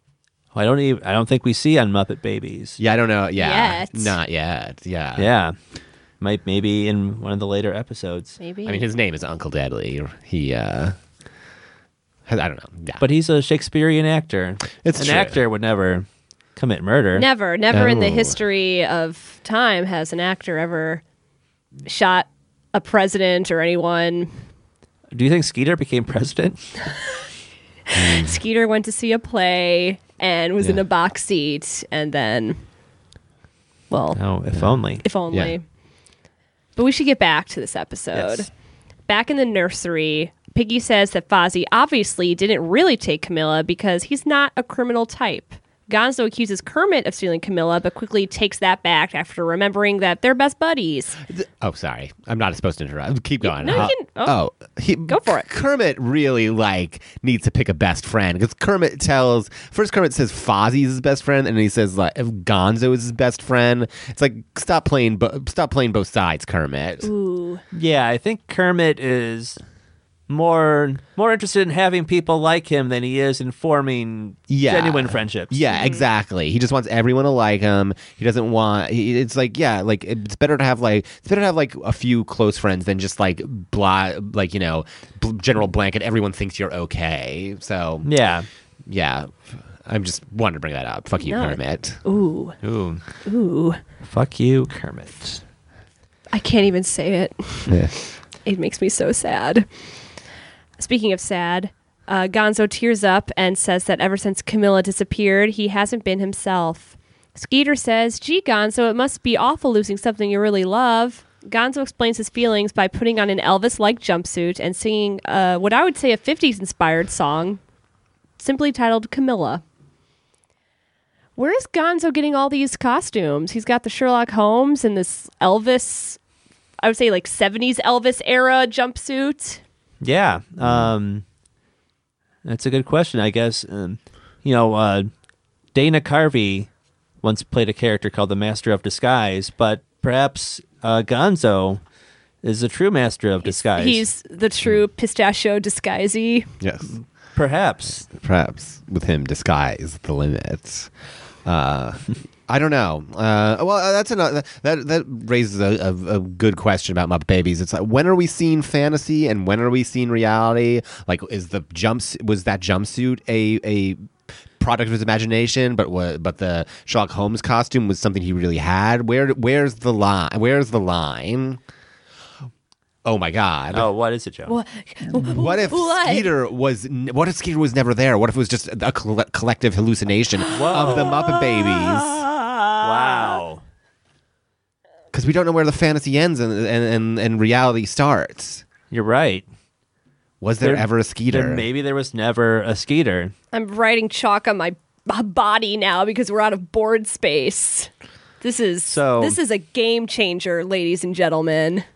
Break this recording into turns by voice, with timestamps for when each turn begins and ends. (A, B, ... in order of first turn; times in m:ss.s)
0:00.6-0:02.8 A
0:02.8-0:05.3 B
0:03.4-0:04.2 C
0:05.2-0:05.6 A
0:06.2-0:08.4 A
0:08.4-0:08.8 C
0:08.6-0:11.0 B
0:12.3-0:13.0 B
0:13.0-0:17.3 A
0:14.8-0:15.4 B
0:17.2-0:21.0 C
0:17.7-0:18.4 B
0:21.8-0:24.3 C
0:25.1-0:26.7 A
0:27.9-0:28.4 B
0:28.0-0:32.6 C
0:33.9-0:34.2 C
0:34.2-0:35.0 A
0:35.0-0:35.6 C
0:36.8-0:38.5 C
0:39.1-0:51.2 C
0:51.3-1:07.1 B
0:53.4-0:54.4 C
0:55.1-0:55.5 C
1:07.0-1:07.6 C
1:07.7-1:09.6 A
1:10.3-1:15.6 A
1:14.5-1:28.1 B
1:15.7-1:16.0 C
1:28.0-1:28.5 A
1:28.9-1:32.0 B
1:31.2-1:32.6 C
1:32.6-1:33.0 A
1:33.2-1:33.8 C
1:34.0-1:35.4 A
1:36.3-1:37.8 C
1:37.7-1:37.9 B
1:38.4-1:39.7 C
1:40.8-1:57.6 C
1:58.4-1:59.6 C
2:01.4-2:06.2 C
2:06.8-2:09.6 C
2:10.0-2:11.2 A
2:10.6-2:10.9 B
2:12.4-2:15.1 A
2:15.7-2:16.7 A
2:17.2-2:21.8 A
2:22.4-2:24.0 A
2:23.4-2:26.5 C
2:26.6-2:26.9 B
2:27.4-2:28.1 A
2:28.1-2:30.9 B
2:31.4-2:44.0 B
2:44.6-2:51.6 B
2:53.0-2:53.9 B
2:53.7-2:54.5 A
2:54.5-2:56.3 C
2:55.2-3:02.2 B
3:00.5-3:01.2 A
3:00.8-3:03.4 C
3:02.8-3:03.6 A
3:05.1-3:08.6 B
3:08.9-3:09.4 A
3:10.4-3:11.7 B
3:10.6-3:13.3 A
3:13.5-3:17.9 C
3:18.4-3:21.8 C
3:18.8-3:19.4 A